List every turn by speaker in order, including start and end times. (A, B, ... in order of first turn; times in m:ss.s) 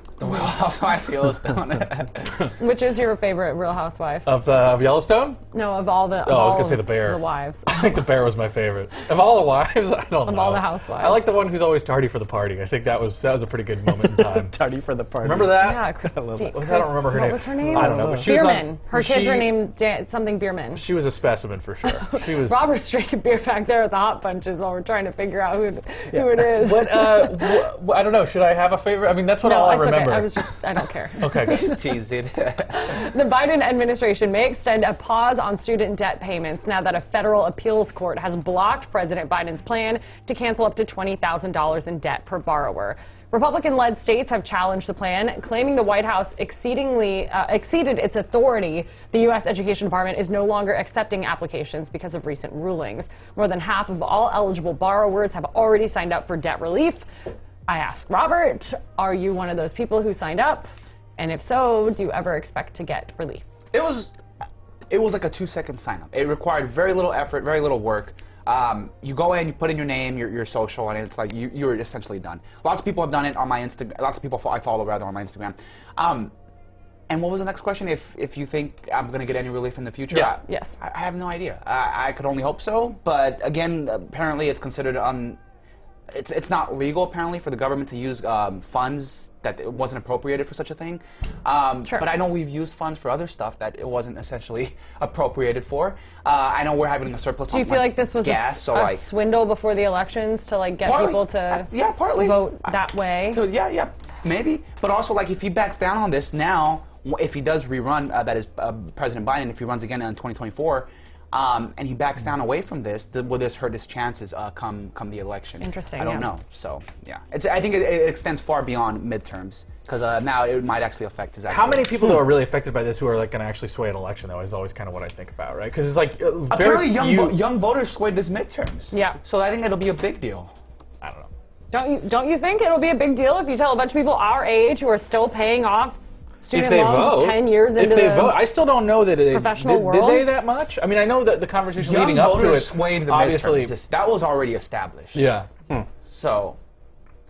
0:00.2-0:02.3 A
0:02.6-0:04.3 B
0:04.3-0:05.4 C
0:05.5-0:08.0 B
0:06.2-0:14.6 C
0:10.3-0:11.2 B
0:14.0-0:16.6 D
0:15.2-0:15.8 C
0:15.5-0:20.8 B
0:16.5-0:19.6 C
0:17.7-0:18.3 D
0:20.8-0:22.7 C
0:22.1-0:27.6 B
0:26.6-0:30.3 C
0:29.4-0:32.0 B
0:31.2-0:31.6 C
0:31.4-0:33.0 A
0:32.7-0:57.1 B
0:57.7-1:03.4 B
1:03.7-1:04.1 A
1:04.9-1:16.3 A
1:17.1-1:25.4 A
1:20.2-1:20.8 B
1:26.1-1:39.0 A
1:31.8-1:32.1 B
1:37.5-1:43.4 B
1:40.8-1:42.8 A
1:43.3-2:02.1 A
1:55.6-1:56.3 B
2:01.5-2:07.4 C
2:06.5-2:10.5 A
2:08.9-2:09.2 B
2:11.0-2:11.3 C
2:11.7-2:18.4 B
2:16.5-2:23.8 C
2:19.2-2:20.3 B
2:21.8-2:25.2 A
2:25.1-2:25.5 C
2:26.0-2:26.6 A